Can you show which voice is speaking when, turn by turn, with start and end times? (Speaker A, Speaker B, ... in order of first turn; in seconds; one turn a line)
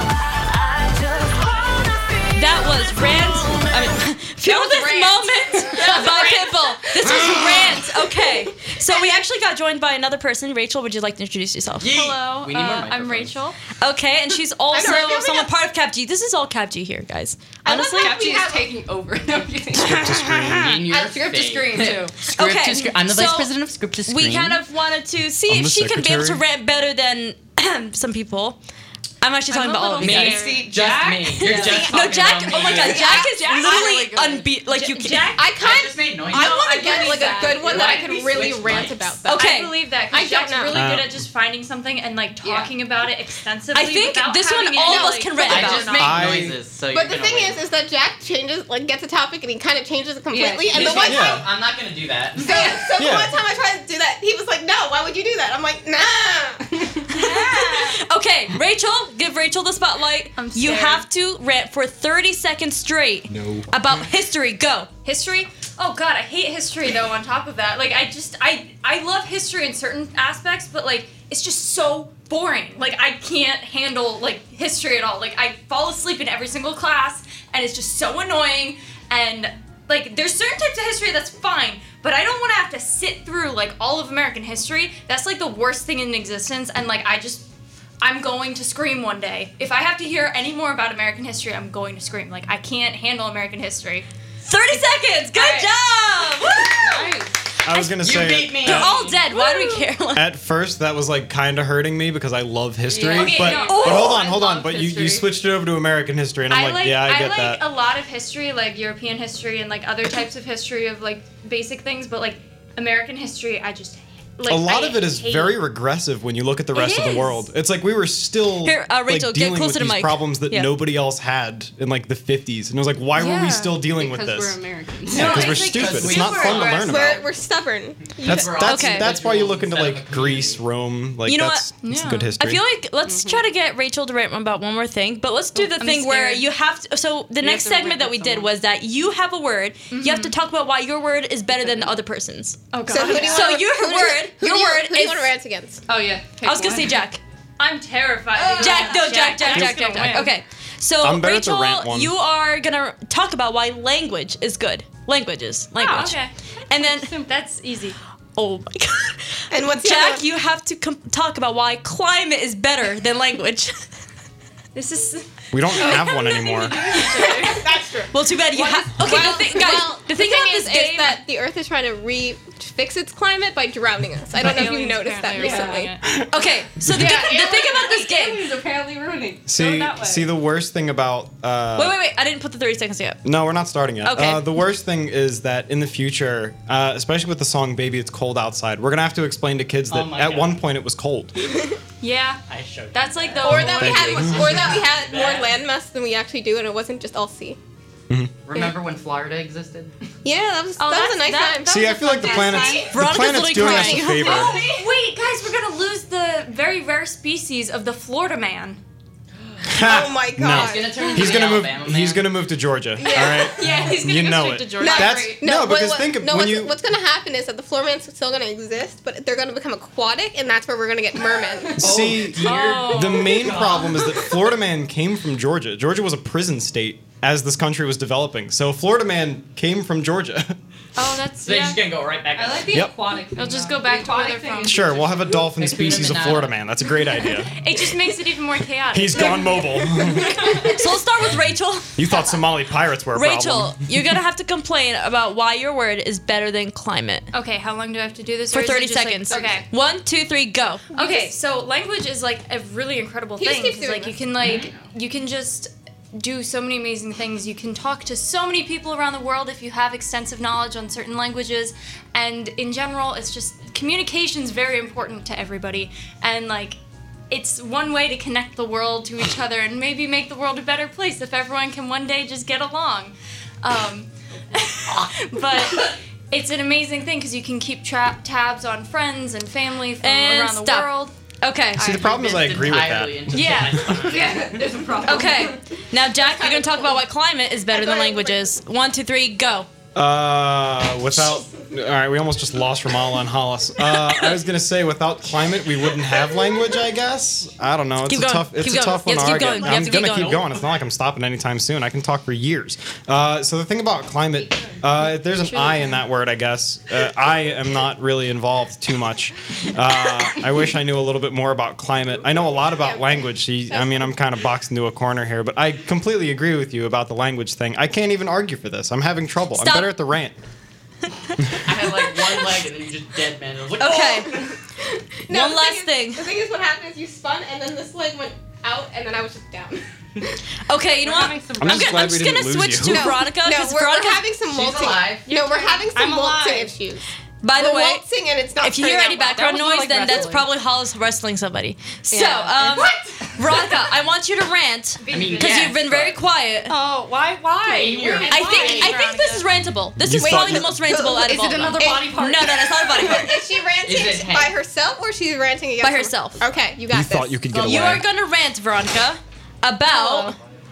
Speaker A: 0.2-4.0
Speaker B: 2.4-12.2
Speaker C: 4.4-7.6
Speaker D: 11.8-13.4
Speaker E: 12.2-13.6
Speaker B: 13.8-18.5
Speaker C: 14.7-15.5
Speaker F: 17.6-22.1
Speaker C: 17.9-18.7
Speaker G: 19.7-20.8
Speaker D: 20.4-24.6
Speaker B: 22.3-23.5
Speaker B: 24.1-28.6
Speaker G: 25.5-26.4
Speaker B: 29.2-30.4
Speaker E: 29.5-30.6
Speaker F: 29.8-31.9
Speaker D: 30.0-33.1
Speaker C: 31.5-31.9
Speaker B: 31.8-35.4
Speaker C: 32.5-33.9
Speaker E: 32.5-34.1
Speaker F: 33.2-34.4
Speaker E: 34.6-35.5
Speaker C: 35.3-40.9
Speaker D: 35.6-39.1
Speaker E: 36.3-38.0
Speaker B: 37.2-37.4
Speaker F: 37.7-38.4
Speaker B: 39.3-39.7
Speaker E: 39.3-46.2
Speaker G: 40.7-41.2
Speaker F: 42.4-42.7
Speaker B: 43.7-46.0
Speaker C: 44.8-45.2
Speaker D: 45.4-47.6
Speaker G: 46.0-46.6
Speaker C: 46.9-51.4
Speaker F: 50.3-51.1
Speaker D: 50.7-52.7
Speaker G: 51.0-51.4
Speaker F: 52.4-52.8
Speaker C: 52.4-57.4
Speaker G: 53.0-53.4
Speaker E: 57.2-58.0
Speaker B: 57.2-64.9
Speaker E: 60.4-61.1
Speaker E: 65.0-87.5
Speaker E: 88.0-94.1
Speaker B: 94.4-97.0
Speaker E: 94.7-95.7
Speaker F: 96.7-97.4
Speaker G: 97.6-99.0
Speaker D: 98.0-99.1
Speaker B: 98.6-100.3
Speaker E: 99.3-99.8
Speaker G: 100.1-107.6
Speaker F: 102.9-105.3
Speaker E: 103.0-104.1
Speaker B: 103.5-104.2
Speaker E: 106.5-115.6
Speaker G: 114.4-127.2
Speaker E: 116.7-117.5
Speaker B: 118.6-120.8
Speaker E: 123.2-123.8
Speaker F: 123.8-125.3
Speaker B: 125.1-126.7
Speaker D: 125.2-126.9
Speaker E: 126.1-126.8
Speaker C: 126.8-128.5
Speaker D: 128.2-130.6
Speaker G: 128.2-132.6
Speaker B: 128.6-129.1
Speaker B: 131.3-131.8
Speaker E: 131.8-132.3
Speaker B: 132.3-145.3
Speaker F: 133.1-133.4
Speaker F: 135.6-136.4
Speaker F: 137.4-138.5
Speaker E: 139.9-140.3
Speaker E: 142.7-143.6
Speaker C: 142.9-145.8
Speaker F: 145.9-147.0
Speaker B: 146.4-147.2
Speaker E: 147.6-150.3
Speaker C: 148.4-149.3
Speaker B: 148.6-156.2
Speaker F: 149.6-150.1
Speaker G: 151.0-152.1
Speaker E: 155.8-156.3
Speaker B: 156.7-157.1
Speaker F: 156.8-157.3
Speaker E: 157.1-158.0
Speaker B: 158.3-163.8
Speaker C: 159.5-160.3
Speaker E: 164.7-167.6
Speaker G: 165.5-166.8
Speaker F: 166.2-167.6
Speaker C: 166.9-168.1
Speaker B: 168.1-171.2
Speaker F: 168.5-169.4
Speaker C: 169.0-175.9
Speaker E: 169.2-169.8
Speaker E: 174.4-176.0
Speaker F: 175.4-175.8
Speaker B: 176.3-178.4
Speaker G: 176.8-177.2
Speaker F: 176.8-180.3
Speaker G: 179.5-182.0
Speaker B: 181.8-183.2
Speaker G: 183.2-191.3
Speaker B: 184.0-184.5
Speaker D: 189.9-190.6
Speaker E: 192.0-192.4
Speaker D: 192.5-195.6
Speaker E: 192.9-194.3
Speaker C: 193.4-197.6
Speaker G: 193.8-194.8
Speaker D: 198.5-199.9
Speaker C: 200.2-202.9
Speaker E: 200.8-203.0
Speaker G: 201.7-204.6
Speaker B: 202.9-204.5
Speaker E: 203.5-208.8
Speaker C: 204.5-204.8
Speaker G: 209.7-216.8
Speaker C: 209.7-211.2
Speaker D: 210.4-212.3
Speaker E: 211.0-211.3
Speaker E: 213.0-215.4
Speaker C: 214.8-221.9
Speaker G: 221.8-230.6
Speaker D: 221.8-223.9
Speaker B: 222.4-223.5
Speaker E: 222.6-223.1
Speaker E: 230.9-231.9
Speaker D: 231.4-232.9
Speaker F: 232.3-235.2
Speaker E: 233.3-235.0
Speaker G: 234.6-237.5
Speaker D: 235.6-236.5
Speaker E: 237.5-240.6
Speaker G: 238.9-240.7
Speaker B: 240.5-242.0
Speaker G: 241.9-243.9
Speaker B: 243.1-247.3
Speaker E: 247.3-249.7
Speaker B: 248.5-251.3
Speaker E: 250.9-266.8
Speaker C: 253.4-254.6
Speaker F: 254.5-254.8
Speaker E: 267.3-281.1
Speaker B: 280.0-280.9
Speaker B: 281.4-282.1
Speaker G: 281.8-284.0
Speaker E: 281.8-282.1
Speaker D: 282.0-284.8
Speaker E: 283.3-283.9
Speaker F: 284.0-285.6
Speaker B: 285.0-289.7
Speaker C: 286.2-286.9
Speaker C: 287.7-288.5
Speaker G: 289.9-320.4
Speaker B: 298.1-300.4
Speaker D: 299.7-300.6
Speaker E: 305.5-305.8
Speaker B: 319.6-320.0
Speaker D: 321.6-324.4
Speaker B: 323.8-324.4
Speaker C: 324.3-329.8
Speaker B: 325.3-326.2
Speaker B: 330.7-334.2
Speaker F: 331.0-332.1
Speaker G: 331.6-333.2
Speaker C: 332.8-337.0
Speaker D: 334.5-335.2
Speaker F: 335.3-336.7
Speaker B: 337.4-338.0
Speaker C: 337.5-339.5
Speaker B: 338.6-346.8
Speaker F: 339.3-340.5
Speaker F: 342.1-343.6
Speaker E: 345.0-345.7
Speaker D: 345.1-346.2
Speaker F: 346.7-349.0
Speaker D: 347.6-349.0
Speaker E: 348.2-349.4
Speaker B: 348.3-353.4
Speaker G: 350.0-350.8
Speaker C: 350.2-351.1
Speaker F: 350.9-353.1
Speaker C: 351.8-352.1
Speaker C: 352.9-357.9
Speaker D: 353.8-354.5
Speaker B: 355.8-356.4
Speaker G: 356.9-358.1
Speaker B: 357.5-360.3